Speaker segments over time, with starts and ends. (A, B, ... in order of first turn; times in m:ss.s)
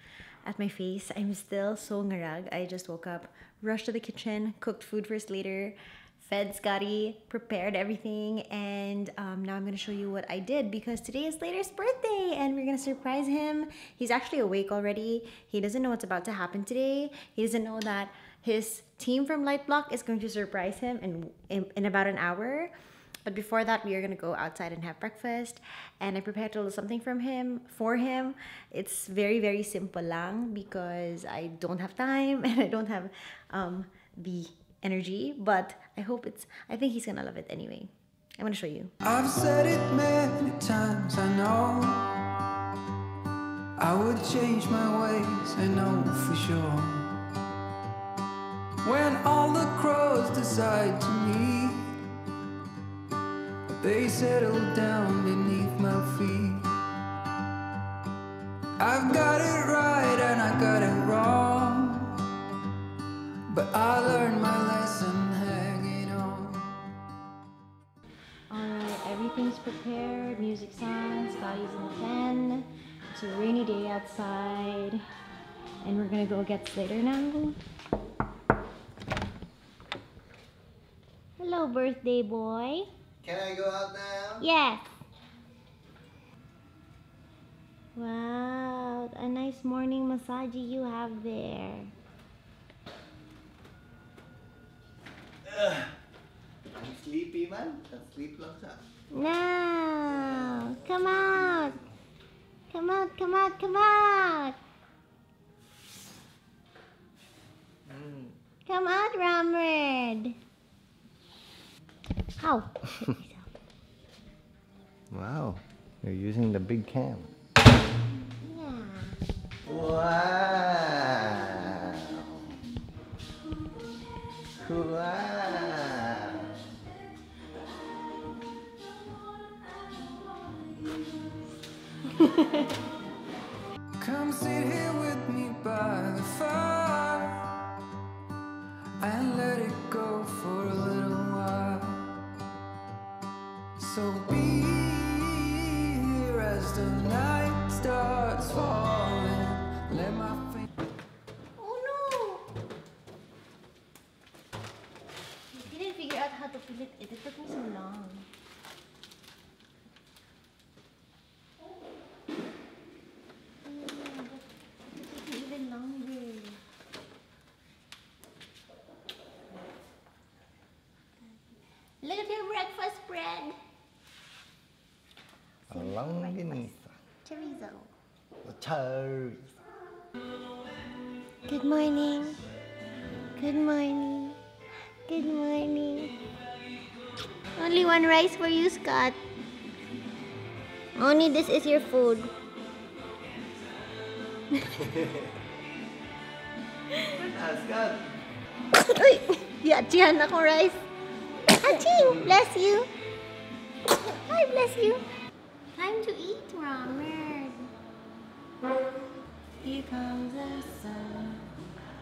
0:00.4-0:22.7 A
0:23.2-0:38.9 A
0:39.0-0:42.1 B
0:43.8-0:47.1 B
0:48.8-0:52.0 B
0:53.7-0:56.7 B
0:58.8-1:02.2 B
1:03.5-1:06.7 B
1:08.5-1:15.0 A
1:15.8-1:17.6 A
1:21.4-1:22.9 A
1:23.2-1:24.5 C
1:24.4-1:24.8 A
1:28.0-1:31.9 A
1:35.4-1:35.9 C
1:36.8-1:38.8 C
1:39.1-1:41.8 A
1:42.7-1:44.6 A
1:47.9-1:48.3 C
1:48.7-1:50.4 A
1:52.4-1:53.5 A
1:55.1-1:57.3 C
1:58.4-1:59.2 A
1:59.6-2:02.4 C
2:04.6-2:06.5 C
2:12.2-2:12.6 A
2:14.0-2:17.5 B
2:19.0-2:22.1 B
2:23.8-2:30.6 B
2:31.6-2:32.5 A
2:35.5-2:38.3 A
2:43.6-2:46.6 A
2:52.0-2:53.6 A
2:55.7-2:56.7 A
2:55.7-2:56.8 C
2:57.2-2:57.9 A
2:58.4-2:59.6 C
3:01.5-3:02.4 A
3:03.4-3:04.4 A
3:05.1-3:06.1 A
3:07.6-3:09.2 A
3:11.0-3:12.3 A
3:17.2-3:18.1 C
3:18.8-3:20.8 A
3:21.5-3:22.9 A
3:23.9-3:25.0 A
3:25.7-3:27.7 A
3:29.6-3:31.6 A